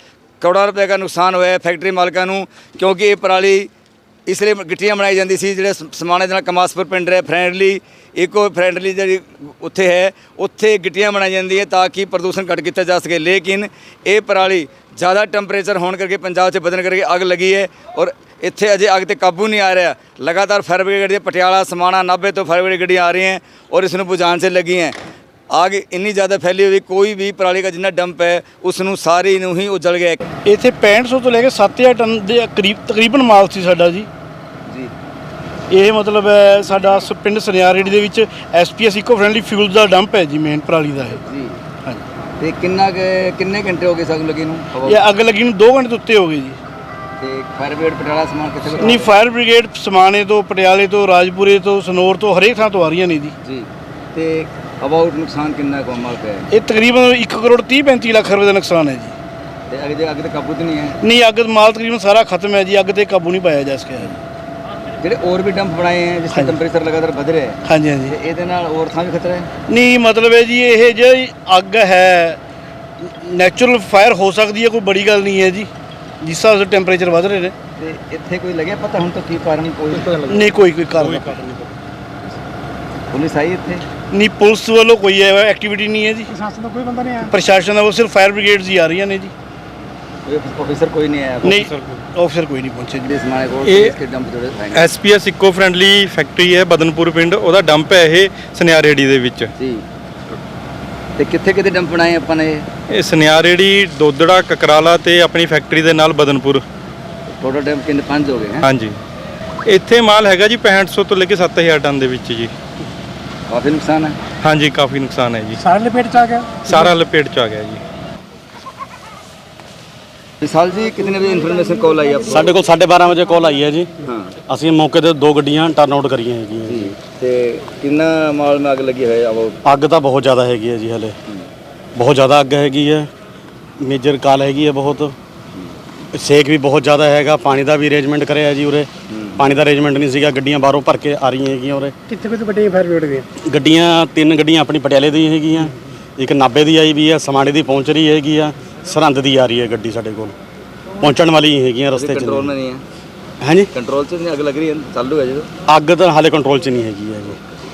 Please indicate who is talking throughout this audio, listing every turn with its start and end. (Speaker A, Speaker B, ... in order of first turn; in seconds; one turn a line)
Speaker A: 0.4-3.7
Speaker A: 4.2-25.0
Speaker A: 25.5-30.3
Speaker B: 30.4-34.1
Speaker A: 34.7-34.9
Speaker B: 35.7-41.2
Speaker A: 41.2-41.6
Speaker A: 42.4-45.0
Speaker B: 44.8-46.6
Speaker A: 47.2-49.1
Speaker B: 48.7-53.3
Speaker A: 53.4-56.5
Speaker B: 56.5-59.1
Speaker A: 59.7-61.0
Speaker B: 61.0-64.2
Speaker A: 65.0-69.5
Speaker B: 67.7-68.1
Speaker B: 69.7-72.4
Speaker B: 73.0-75.7
Speaker B: 76.2-77.5
Speaker A: 77.8-80.2
Speaker C: 80.0-80.2
Speaker B: 80.2-81.5
Speaker C: 80.9-81.7
Speaker A: 83.1-83.8
Speaker B: 84.1-86.3
Speaker D: 86.3-87.3
Speaker B: 87.3-89.3
Speaker A: 90.2-91.7
Speaker B: 91.4-93.1
Speaker C: 91.5-92.0
Speaker A: 93.0-94.9
Speaker C: 93.7-94.0
Speaker C: 94.7-99.5
Speaker A: 99.6-99.8
Speaker A: 101.2-102.7
Speaker C: 102.9-106.6
Speaker A: 107.4-108.7
Speaker C: 108.6-109.0
Speaker C: 109.7-112.5
Speaker A: 113.5-114.2
Speaker C: 114.4-115.6
Speaker D: 115.6-116.7
Speaker C: 116.6-117.8
Speaker A: 120.4-122.5
Speaker E: 122.3-123.9
Speaker A: 124.0-124.3
Speaker E: 124.5-126.9
Speaker A: 126.7-129.6
Speaker E: 129.6-131.1
Speaker E: 131.9-133.1
Speaker E: 133.8-135.1
Speaker E: 136.1-141.9
Speaker A: 139.1-139.5
Speaker D: 142.1-143.2
Speaker E: 143.4-150.3
Speaker E: 151.0-152.5
Speaker A: 151.9-152.8
Speaker E: 153.4-153.7
Speaker A: 153.7-155.5
Speaker E: 155.7-157.4